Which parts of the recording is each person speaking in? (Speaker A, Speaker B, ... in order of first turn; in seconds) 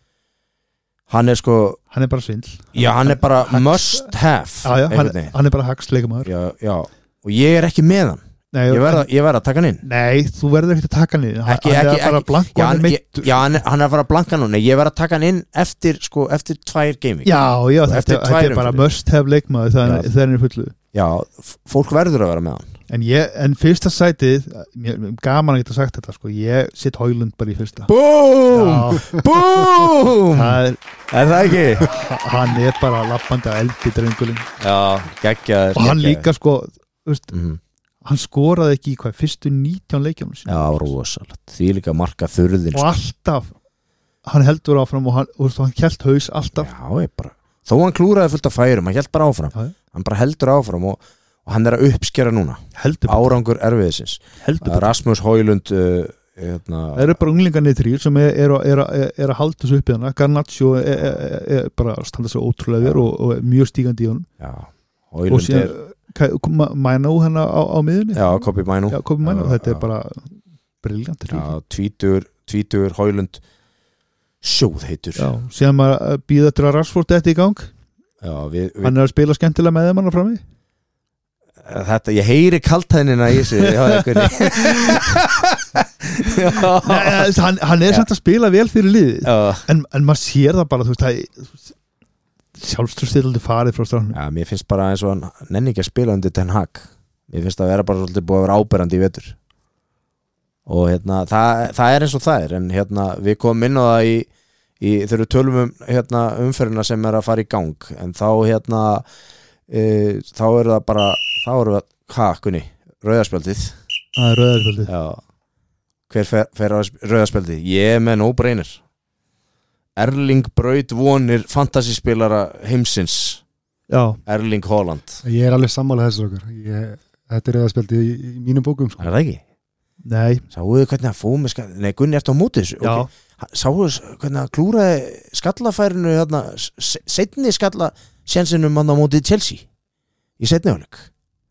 Speaker A: 1.1-1.8, 2.7-5.3, 6.2-9.8, 11.5-18.9, 19.8-20.1, 20.9-22.7, 27.9-31.9, 34.6-36.3, 37.3-37.6, 40.5-42.9, 46.6-57.2, 64.4-65.7, 68.1-69.9, 71.3-73.4, 74.4-75.3, 78.2-79.0, 81.6-87.3, 89.2-89.7, 94.1-99.4, 100.7-104.3, 104.8-109.1, 109.7-113.8, 114.9-115.2, 116.1-118.8, 120.0-123.4, 124.3-125.2, 129.0-129.4, 130.5-139.7, 140.4-141.1
Speaker B: 1.9-4.1, 4.6-6.3, 8.5-9.1, 9.8-13.6, 17.2-20.7, 22.9-27.9, 28.5-29.2, 30.3-30.8, 31.8-34.5, 35.8-37.3, 38.0-40.9, 42.7-43.5, 44.2-46.7, 52.8-53.3, 54.4-54.9, 57.0-64.3, 65.3-71.5, 75.2-77.7, 78.8-80.4, 83.6-85.0, 86.5-91.7, 92.6-94.2, 114.2-114.9, 123.9-124.2, 130.1-130.4, 132.8-133.1
Speaker C: 125.2-129.1